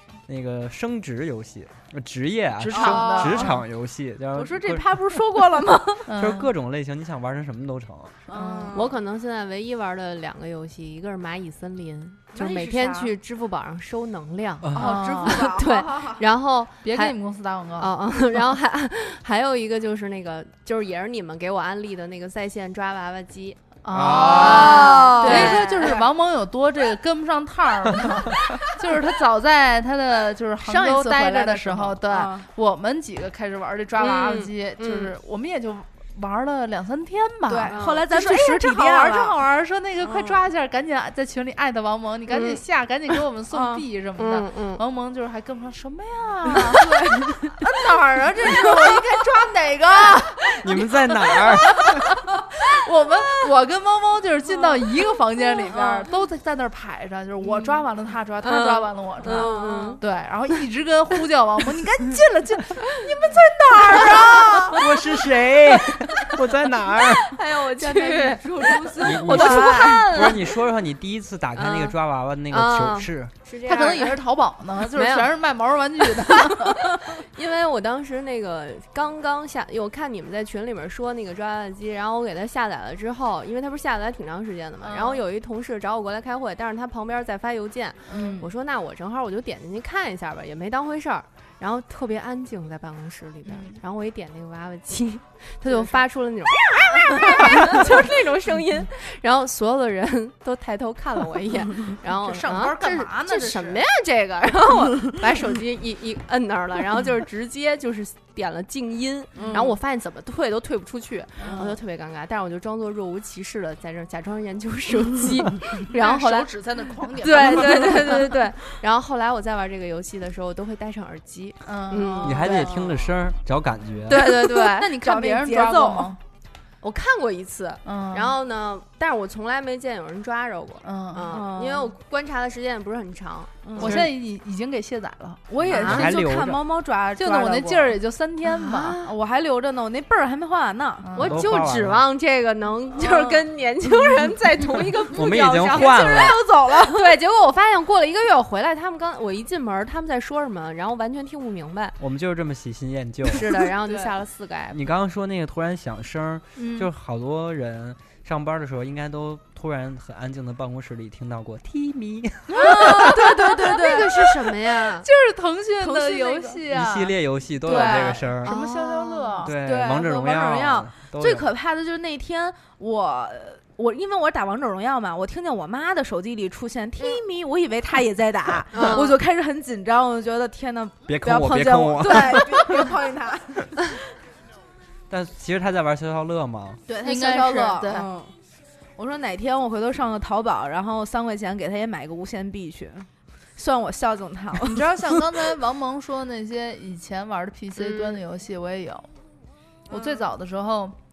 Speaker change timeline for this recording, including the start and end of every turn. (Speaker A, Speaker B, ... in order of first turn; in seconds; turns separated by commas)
Speaker A: 0.3-5.2, Speaker B: 2.6-3.6, Speaker C: 2.7-3.6, Speaker C: 4.3-6.1, Speaker B: 6.1-6.5, Speaker A: 6.2-8.2, Speaker C: 8.3-9.0, Speaker B: 8.3-8.8, Speaker D: 8.7-17.1, Speaker C: 12.3-13.1, Speaker A: 14.6-14.9, Speaker C: 14.7-16.2, Speaker B: 14.8-15.5, Speaker B: 16.8-17.9, Speaker D: 17.8-26.1, Speaker B: 23.8-64.8, Speaker A: 23.9-24.9, Speaker C: 24.3-26.0, Speaker D: 30.6-32.0, Speaker C: 32.1-32.5, Speaker D: 34.0-35.1, Speaker C: 37.5-39.4, Speaker D: 37.7-38.0, Speaker C: 40.0-40.4, Speaker D: 42.3-42.6, Speaker C: 43.5-43.8, Speaker D: 44.2-44.8, Speaker C: 46.7-47.6, Speaker A: 50.4-52.1, Speaker C: 55.4-56.0, Speaker C: 57.5-57.8, Speaker D: 58.4-60.0, Speaker C: 59.2-60.0, Speaker C: 63.9-64.7, Speaker A: 64.7-67.3, Speaker D: 66.9-70.4, Speaker C: 67.7-70.4, Speaker A: 69.0-73.3, Speaker D: 71.5-72.0, Speaker D: 72.5-74.2, Speaker B: 73.6-76.9, Speaker D: 74.9-75.3, Speaker D: 76.4-116.5, Speaker B: 84.8-85.2, Speaker B: 88.1-88.5, Speaker C: 88.1-88.4, Speaker B: 93.5-93.8, Speaker B: 95.7-96.0, Speaker B: 102.1-103.8, Speaker C: 109.3-109.8, Speaker B: 109.4-109.6, Speaker B: 111.4-111.7, Speaker C: 111.4-111.8, Speaker B: 115.9-118.3, Speaker D: 117.2-123.2, Speaker C: 117.3-118.2, Speaker B: 121.6-122.3, Speaker C: 122.0-122.7, Speaker A: 122.2-124.2, Speaker D: 124.1-124.9, Speaker B: 124.1-126.2, Speaker C: 124.2-126.1, Speaker D: 126.8-134.1, Speaker B: 127.8-128.3, Speaker B: 130.8-131.3, Speaker C: 131.3-132.0, Speaker C: 133.6-134.1, Speaker B: 133.8-136.2, Speaker C: 135.5-138.0, Speaker A: 135.6-136.6, Speaker B: 137.2-139.0, Speaker D: 138.4-139.2, Speaker C: 139.0-141.1, Speaker B: 141.0-141.4, Speaker D: 141.1-152.0, Speaker A: 141.2-142.0, Speaker C: 142.9-143.5, Speaker A: 145.1-146.4, Speaker C: 145.1-147.2, Speaker A: 152.0-153.5, Speaker D: 153.2-154.8, Speaker C: 153.7-154.1, Speaker A: 154.7-163.1, Speaker B: 156.6-156.9, Speaker C: 162.5-164.6, Speaker D: 162.6-165.1, Speaker B: 162.7-163.4, Speaker B: 164.9-169.5, Speaker C: 165.8-166.6, Speaker A: 166.7-168.5, Speaker C: 167.6-168.2, Speaker D: 168.4-169.4, Speaker A: 169.4-171.5, Speaker C: 169.5-183.9, Speaker D: 178.7-179.2, Speaker A: 181.1-182.9, Speaker A: 185.1-186.8, Speaker C: 186.9-188.3, Speaker B: 187.0-188.1, Speaker C: 189.0-195.2, Speaker B: 194.6-199.1, Speaker D: 197.8-198.2, Speaker B: 199.9-200.9, Speaker C: 199.9-200.2